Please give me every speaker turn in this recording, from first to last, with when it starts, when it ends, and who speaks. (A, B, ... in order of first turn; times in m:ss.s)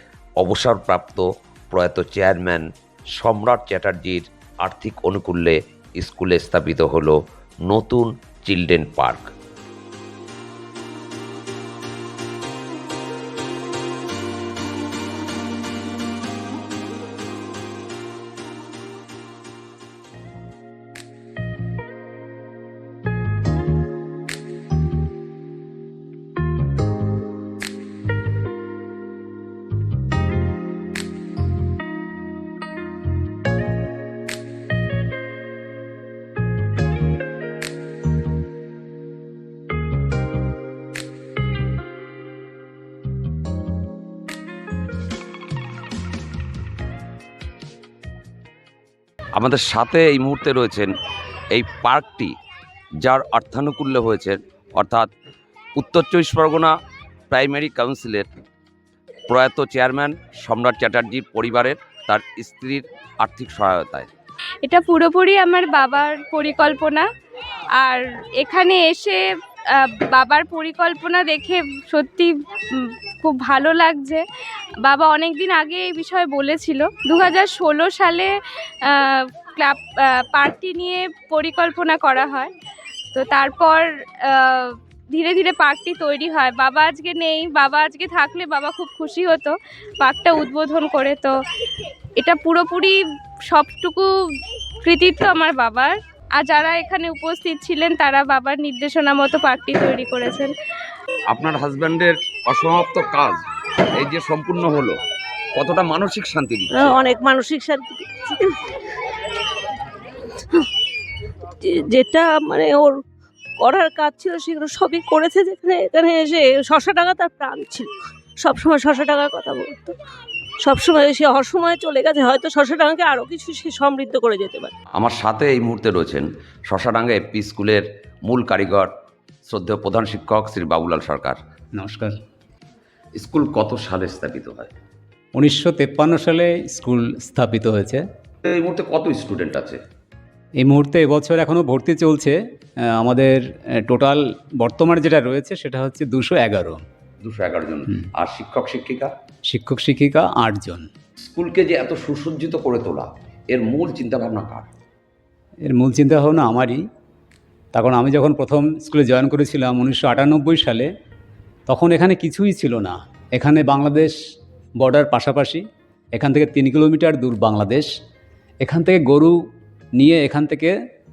0:00.4-0:09.3 A
0:49.4-0:50.9 A
0:51.5-0:52.3 A
0:53.0-0:55.1 A
0:55.8-0:56.7 A
0:57.3-0:58.3 A
0:59.3-1:04.1 A
1:04.6-1:07.1 B
1:07.8-1:09.2 B
1:09.7-1:14.2 B
1:14.8-1:22.5 B
1:23.1-1:31.3 B
1:32.2-1:40.5 B
1:41.3-1:43.4 A
1:44.0-1:45.0 A
1:45.6-1:47.0 A
1:46.7-1:48.6 C
1:51.6-1:53.0 C
1:53.6-1:59.9 C
2:00.6-2:04.7 C
2:04.9-2:08.9 A
2:09.4-2:11.4 A
2:11.8-2:12.1 D
2:13.2-2:14.7 A
2:15.4-2:18.0 D
2:18.4-2:19.8 A
2:20.6-2:22.4 D
2:22.9-2:26.8 D
2:27.2-2:29.1 A
2:29.5-2:30.9 D
2:31.2-2:34.7 A
2:35.7-2:36.8 D
2:37.7-2:40.9 D
2:41.7-2:44.2 D
2:44.8-2:45.6 D
2:46.2-2:47.9 D
2:48.6-2:49.4 D
2:50.0-2:50.7 D